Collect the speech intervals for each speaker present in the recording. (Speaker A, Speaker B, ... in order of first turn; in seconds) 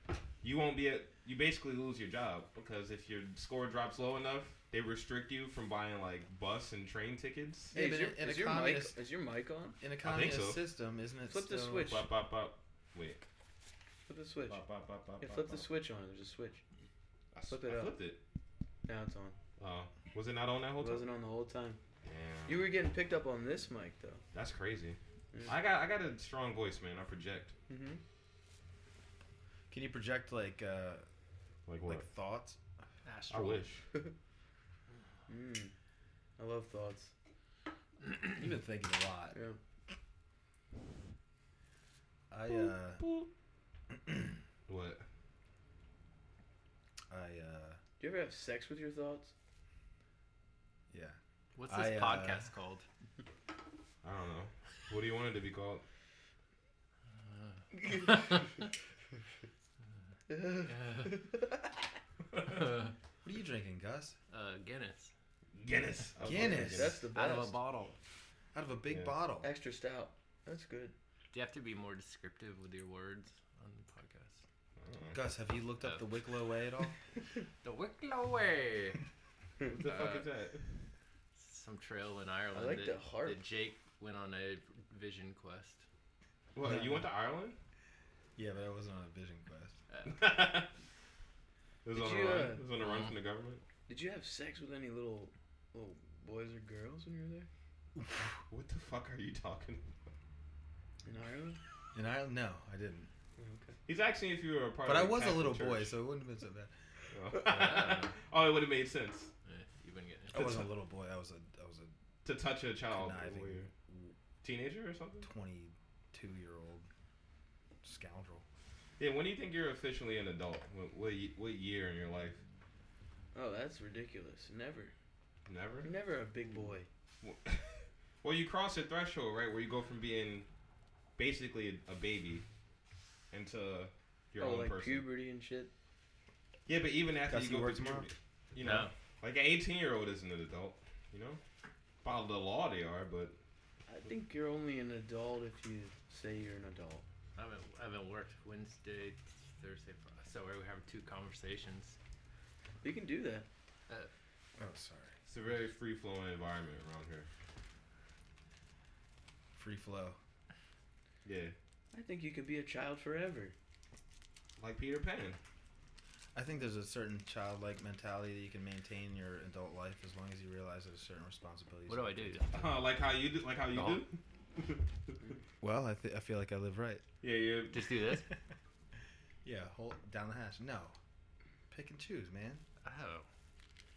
Speaker A: 0.4-7.7, 10.0-10.6, 11.8-13.2, 14.5-15.6, 17.3-18.2, 19.6-21.0, 22.0-22.6, 24.3-27.5, 31.7-32.0, 33.3-33.9, 42.5-43.3, 44.7-45.0, 54.0-55.8, 65.5-67.0, 74.8-75.2, 79.7-80.6, 86.5-87.6, 90.0-90.7, 91.8-93.6, 98.5-100.0, 103.8-106.0, 107.1-109.3, 112.2-113.7, 114.4-115.3, 119.0-122.4, 125.5-125.9, 127.2-130.5, 131.2-132.4, 133.3-135.0, 136.7-141.4, 142.0-143.4, 155.3-157.3, 161.2-161.5, 164.6-165.4, 172.5-175.2, 177.2-177.9
Speaker B: 7.7-8.9, 9.8-12.0, 14.5-15.5, 29.7-31.0, 31.9-32.6, 38.2-39.4, 42.3-43.0, 43.9-44.4, 47.1-47.8, 50.9-52.5, 63.2-64.2, 66.2-67.0, 68.5-69.5, 75.1-77.0, 86.6-87.0, 88.3-89.8, 98.0-98.4, 101.9-103.1, 104.8-106.7, 110.3-111.9, 112.9-114.1, 115.2-116.9, 117.8-118.4, 137.3-138.1, 154.6-155.2, 159.6-160.2, 166.3-172.4, 175.6-177.0, 179.4-180.9, 181.7-182.6
Speaker C: 7.7-9.8, 11.3-12.1, 14.1-14.6, 15.2-16.6, 17.5-17.9, 18.8-19.4, 20.8-21.8, 22.5-24.2, 27.7-28.0, 35.3-35.7, 36.4-37.1, 39.3-39.6, 48.0-49.3, 57.8-58.4, 60.3-61.7, 66.3-67.6, 69.4-70.9, 82.5-83.4, 91.9-92.6, 93.9-97.5, 101.0-101.6, 103.4-103.8, 123.3-124.9, 125.8-126.9, 134.4-135.7, 143.9-147.0, 152.8-153.5, 161.9-163.5
Speaker D: 33.0-33.6, 51.5-52.9, 57.1-58.2, 60.6-61.1, 62.4-62.9, 64.3-65.1, 67.1-68.0, 71.3-74.4, 75.8-76.1, 77.6-79.0, 79.8-80.3, 81.3-85.8, 89.9-90.2, 92.8-93.1, 107.4-108.2, 109.4-110.5, 138.6-138.9, 147.3-152.0, 171.9-172.8, 173.7-174.0, 177.7-178.3, 182.8-183.2